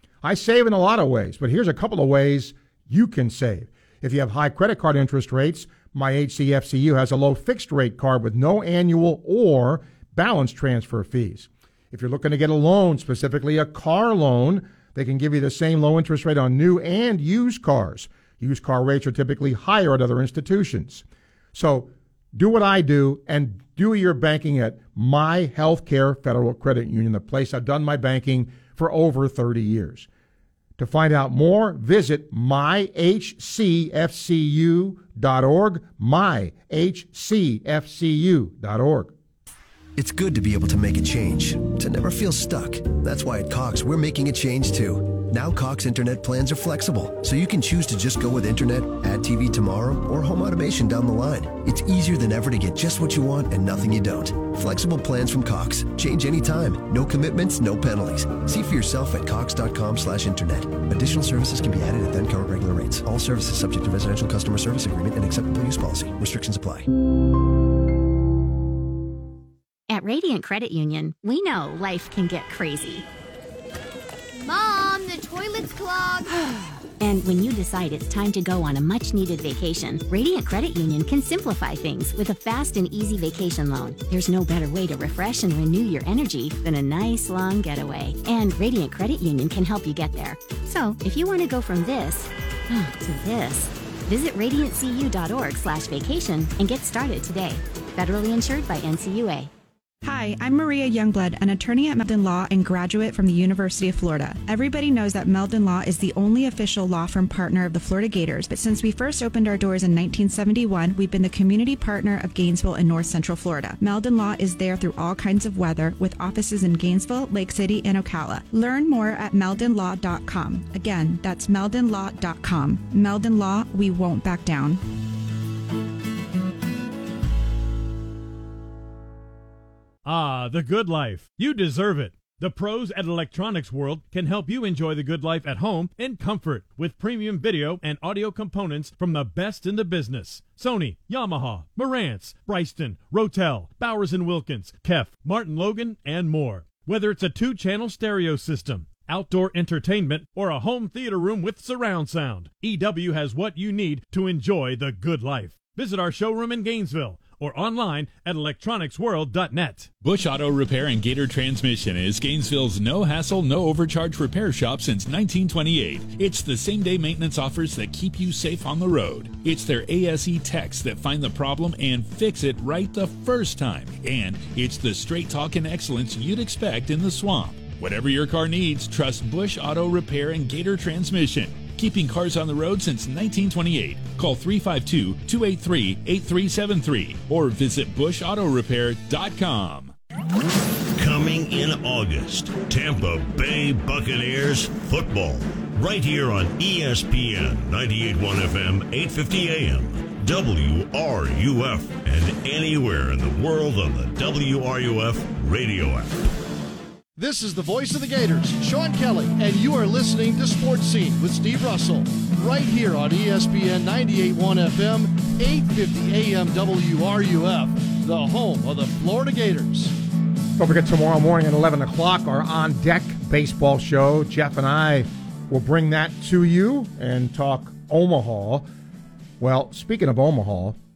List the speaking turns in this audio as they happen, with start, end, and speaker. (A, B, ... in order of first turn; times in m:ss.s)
0:00.2-0:30.1 A
0:30.8-0:39.1 A
0:40.0-1:06.9 B
1:09.9-1:13.0 C
1:14.4-1:16.3 D
1:17.0-1:39.5 C
1:40.0-2:04.8 E
2:10.0-2:39.9 F
2:40.0-3:09.9 G
3:11.0-3:26.3 H
3:27.2-3:39.9 I
3:40.6-3:48.7 A
3:49.4-3:50.8 A